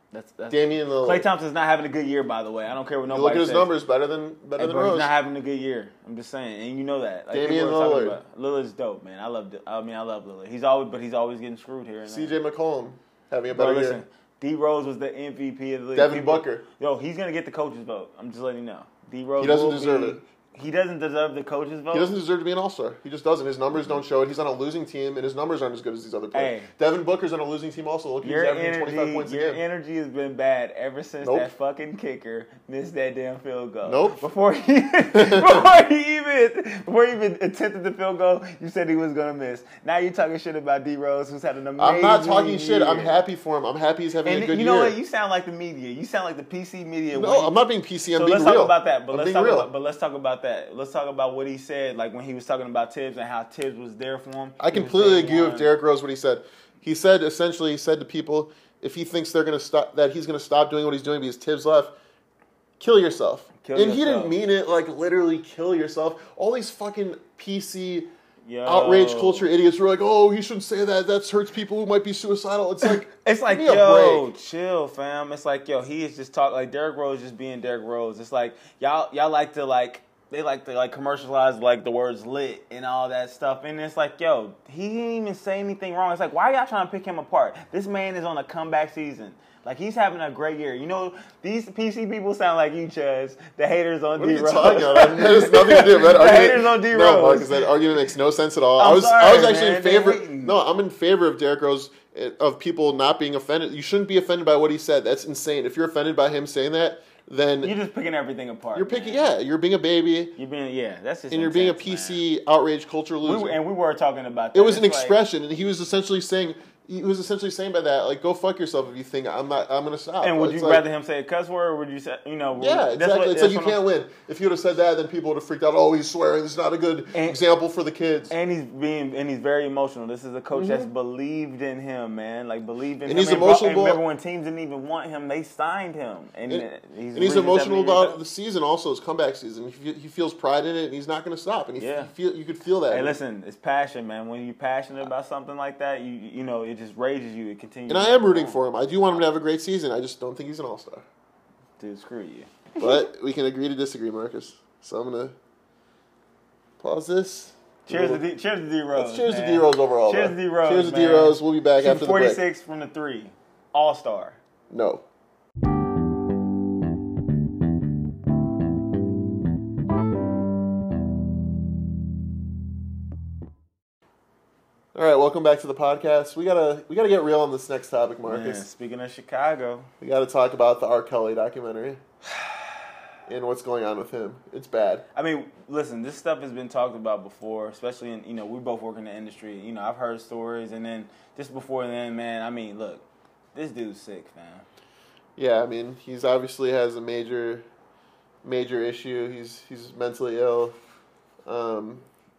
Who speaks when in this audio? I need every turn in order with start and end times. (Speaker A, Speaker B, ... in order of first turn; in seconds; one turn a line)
Speaker A: 0.1-3.7
Speaker B: 0.5-1.3
Speaker B: 3.1-5.1
Speaker A: 4.6-12.4
Speaker B: 7.3-8.2
Speaker B: 12.1-14.0
Speaker A: 13.5-22.1
Speaker B: 15.9-16.6
Speaker B: 19.4-20.2
Speaker B: 21.9-29.6
Speaker A: 26.3-26.7
Speaker A: 28.2-43.2
Speaker B: 31.2-31.5
Speaker B: 33.8-34.2
Speaker B: 35.1-35.7
Speaker B: 41.8-45.0
Speaker A: 44.2-47.6
Speaker B: 47.1-49.7
Speaker A: 48.1-55.7
Speaker B: 54.6-61.9
Speaker B: 62.8-68.1
Speaker A: 63.6-64.4
Speaker A: 68.5-69.5
Speaker B: 68.6-74.3
Speaker A: 72.8-97.6
Speaker B: 94.2-107.8
Speaker A: 98.8-100.6
Speaker A: 107.6-109.3
Speaker B: 108.7-110.3
Speaker A: 110.4-112.2
Speaker B: 111.3-113.6
Speaker A: 113.2-115.2
Speaker B: 114.5-120.8
Speaker A: 120.2-123.8
Speaker B: 122.6-128.3
Speaker A: 128.3-138.2
Speaker B: 130.5-130.9
Speaker B: 133.1-134.0
Speaker B: 136.5-143.2
Speaker A: 141.8-142.1
Speaker A: 142.9-148.6
Speaker B: 147.9-151.1
Speaker A: 151.8-152.9
Speaker B: 152.8-155.3
Speaker B: 156.8-158.2
Speaker A: 157.9-164.4
Speaker B: 158.9-162.4
Speaker B: 164.7-165.1
Speaker B: 174.9-178.6
Speaker A: 178.2-179.9
Speaker B: 180.0-182.0
Speaker B: 183.3-185.1
Speaker A: 185.1-194.6
Speaker B: 195.4-197.7
Speaker B: 198.4-200.8
Speaker B: 201.4-202.1